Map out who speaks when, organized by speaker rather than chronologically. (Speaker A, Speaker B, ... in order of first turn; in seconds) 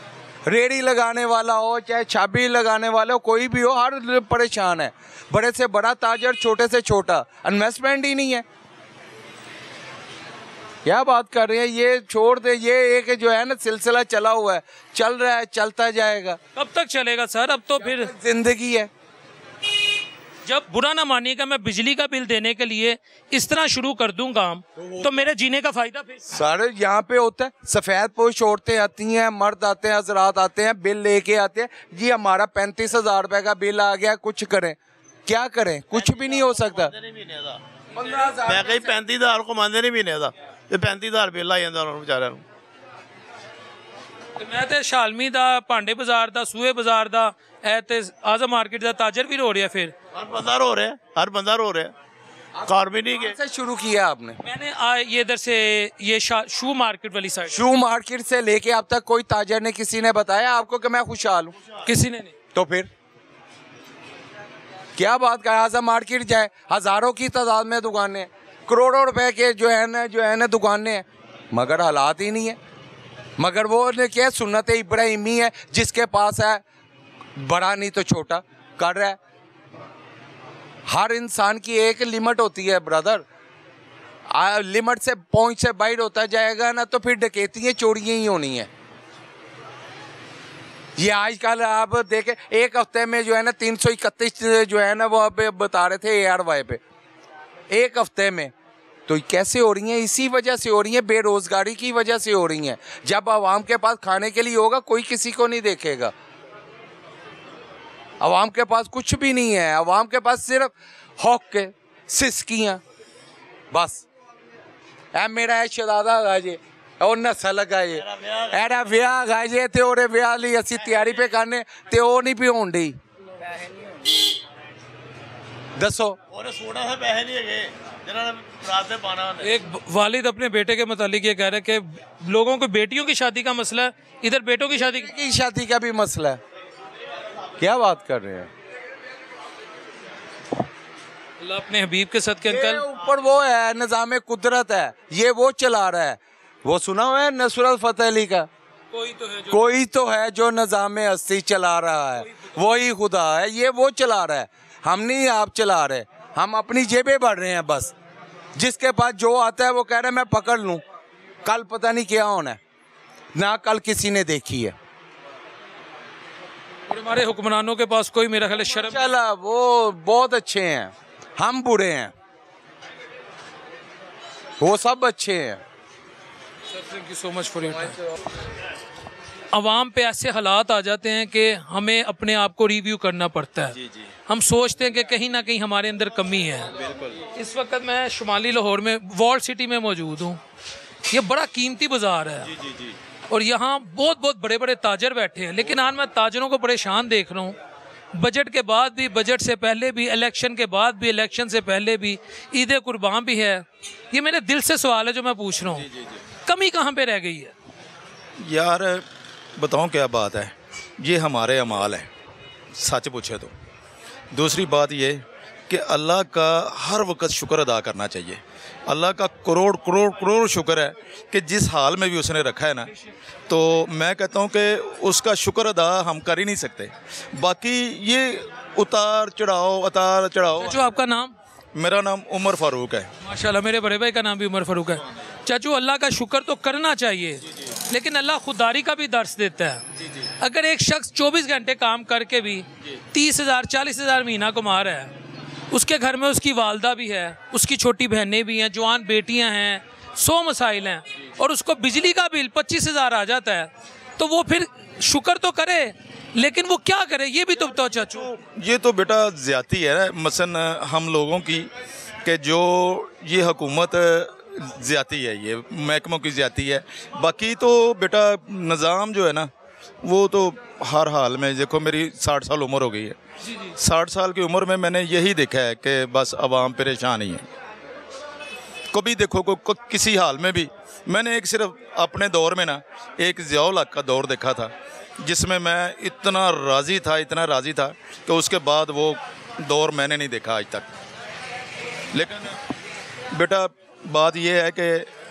Speaker A: 0.5-8.4, 10.8-16.4, 17.8-18.9, 26.3-36.9, 38.0-38.9, 52.6-54.4, 57.5-61.5, 62.5-62.9, 65.0-72.6, 73.4-76.6, 77.4-79.2, 80.9-83.2, 84.3-88.7, 91.0-96.8, 97.7-98.5, 99.1-106.1, 108.2-112.8, 113.7-114.0, 115.1-123.0, 125.8-126.2, 134.8-136.4, 137.6-138.5, 142.4-148.5, 149.5-157.9, 158.6-160.8, 161.4-162.6, 163.3-164.8, 168.6-172.1, 174.6-175.6
Speaker B: 16.6-18.1, 20.5-26.3, 44.4-49.9, 54.4-57.6, 61.9-62.4, 129.4-135.1, 141.4-142.8, 148.9-149.7, 166.9-169.1, 176.7-178.0, 179.5-183.8, 184.3-186.7, 187.3-190.4, 191.1-192.5, 193.3-197.6, 198.1-205.9, 206.5-207.5, 230.6-231.4, 233.2-239.8, 240.4-245.1, 245.7-258.3, 273.4-273.7
Speaker C: 35.9-37.6, 38.3-42.4, 50.1-51.9, 52.7-53.4, 118.2-118.5, 126.3-129.5, 192.5-192.9
Speaker D: 208.4-209.0, 209.6-212.1, 212.8-213.5, 214.3-222.9, 223.5-230.8, 231.8-233.1, 258.1-261.7, 262.2-269.5, 270.0-273.2, 273.8-277.5, 278.9-290.9, 292.1-292.6, 293.3-295.1